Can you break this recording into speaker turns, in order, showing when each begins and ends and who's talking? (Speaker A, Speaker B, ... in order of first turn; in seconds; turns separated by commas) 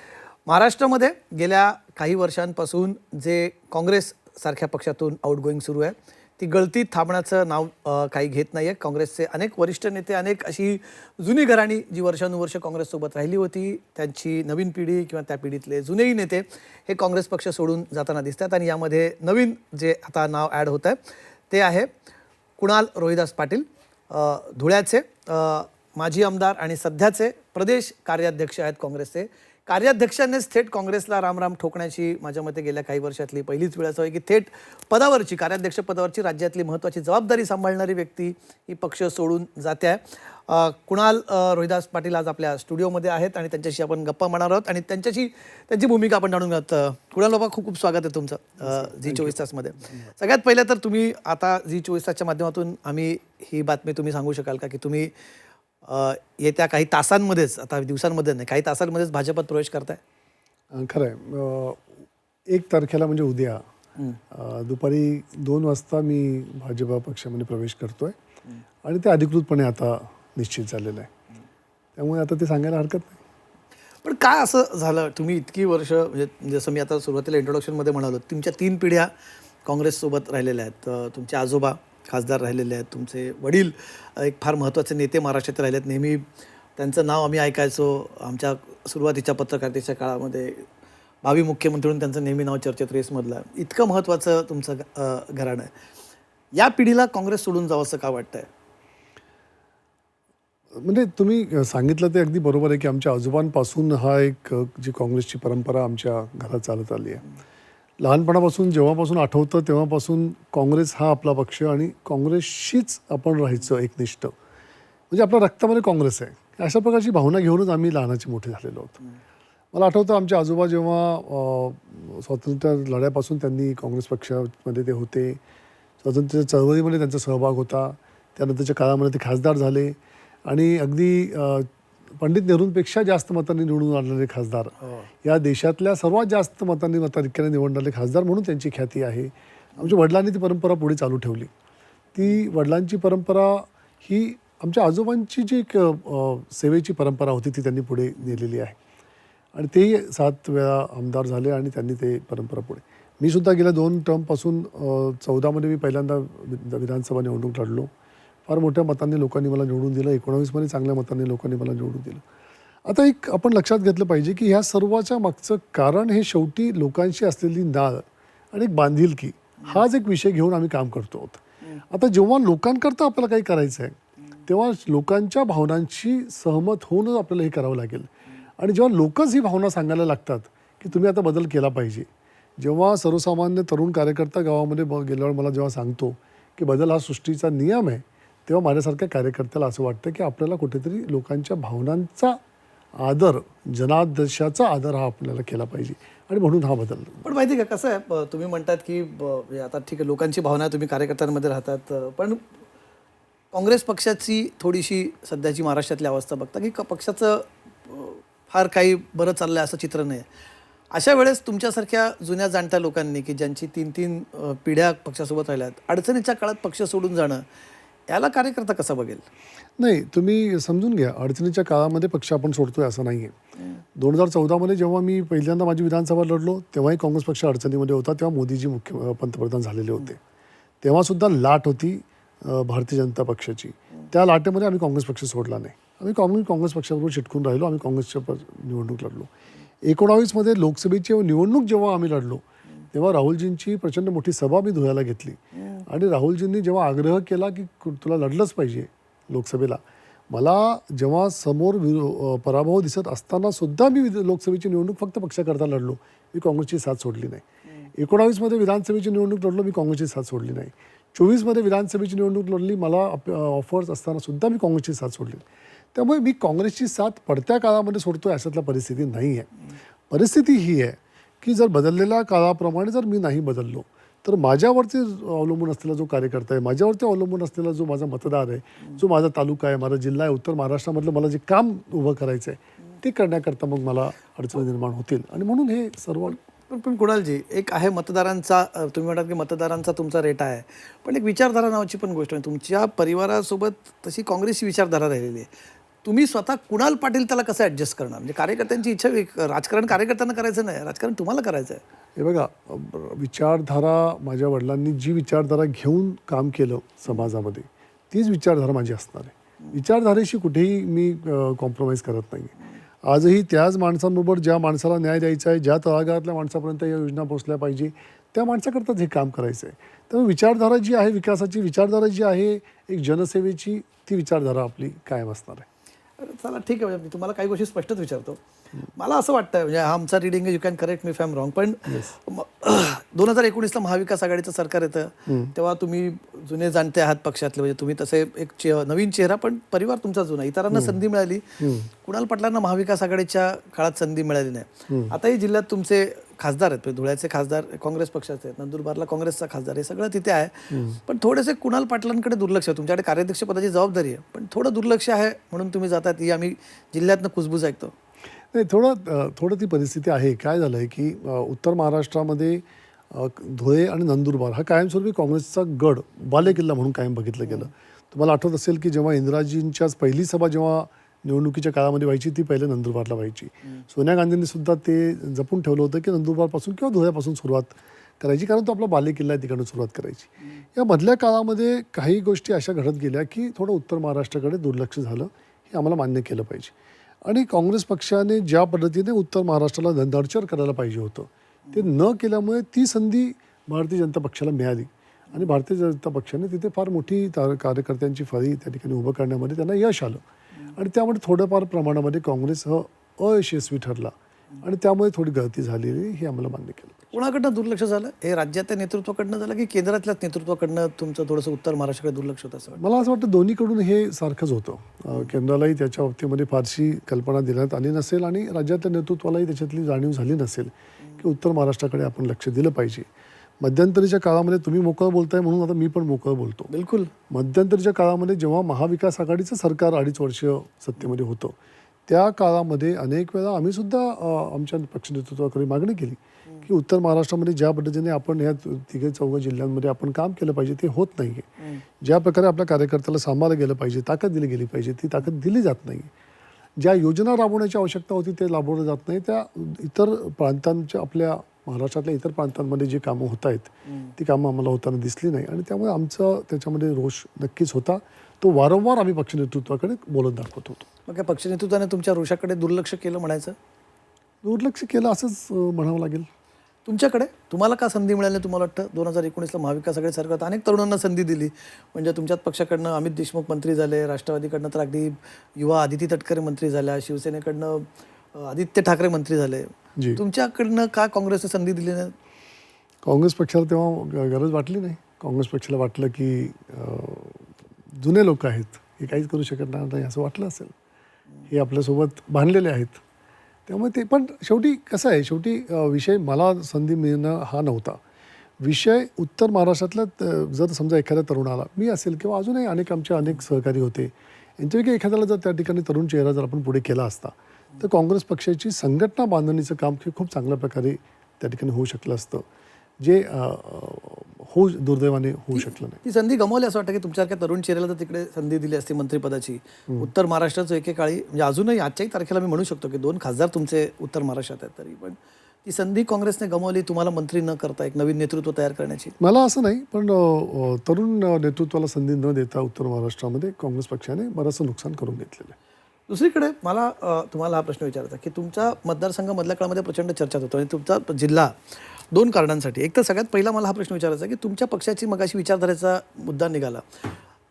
Speaker A: 0.5-21.0, Speaker A: 21.5-21.9, Speaker A: 22.6-55.1, Speaker B: 48.6-49.4, Speaker A: 55.8-60.0, Speaker B: 60.7-61.9, Speaker B: 62.5-63.6, Speaker B: 64.3-68.2, Speaker B: 68.8-71.1, Speaker B: 72.0-73.2, Speaker A: 74.0-79.1, Speaker A: 79.7-86.2, Speaker A: 86.8-90.7, Speaker A: 91.2-95.7, Speaker A: 96.5-98.5, Speaker B: 100.7-107.2, Speaker B: 108.0-114.3, Speaker B: 115.1-119.0, Speaker B: 119.7-125.4, Speaker B: 126.0-141.5, Speaker B: 142.1-148.8, Speaker B: 149.6-157.9, Speaker B: 158.5-162.2, Speaker B: 162.8-182.1, Speaker B: 182.6-192.4, Speaker B: 193.0-197.3, Speaker A: 197.2-202.4, Speaker A: 203.5-210.3, Speaker A: 210.9-217.4, Speaker A: 218.1-219.2, Speaker B: 219.8-223.4, Speaker B: 224.0-230.2, Speaker B: 230.8-239.3, Speaker B: 239.8-257.4, Speaker A: 245.6-245.8, Speaker B: 257.9-269.5, Speaker B: 270.1-286.4, Speaker A: 286.7-295.5, Speaker A: 296.0-301.8, Speaker B: 302.2-325.7, Speaker A: 326.2-328.4, Speaker A: 329.0-357.9, Speaker B: 335.3-335.5, Speaker B: 340.7-341.0, Speaker B: 341.6-341.9, Speaker B: 350.7-351.0, Speaker B: 358.5-386.7, Speaker B: 387.3-400.2, Speaker B: 400.8-407.1, Speaker A: 407.1-412.8, Speaker B: 412.8-423.1, Speaker B: 423.6-426.7, Speaker A: 426.7-427.1, Speaker B: 427.3-431.6, Speaker B: 432.1-441.5, Speaker B: 442.0-446.1, Speaker B: 446.8-460.9, Speaker A: 461.1-463.6, Speaker B: 464.4-466.3, Speaker A: 466.9-482.1, Speaker B: 483.1-490.7, Speaker B: 491.5-493.0, Speaker B: 493.7-498.0, Speaker B: 498.6-512.5, Speaker B: 513.0-516.0, Speaker A: 515.5-529.1, Speaker B: 529.2-535.6, Speaker A: 536.1-547.1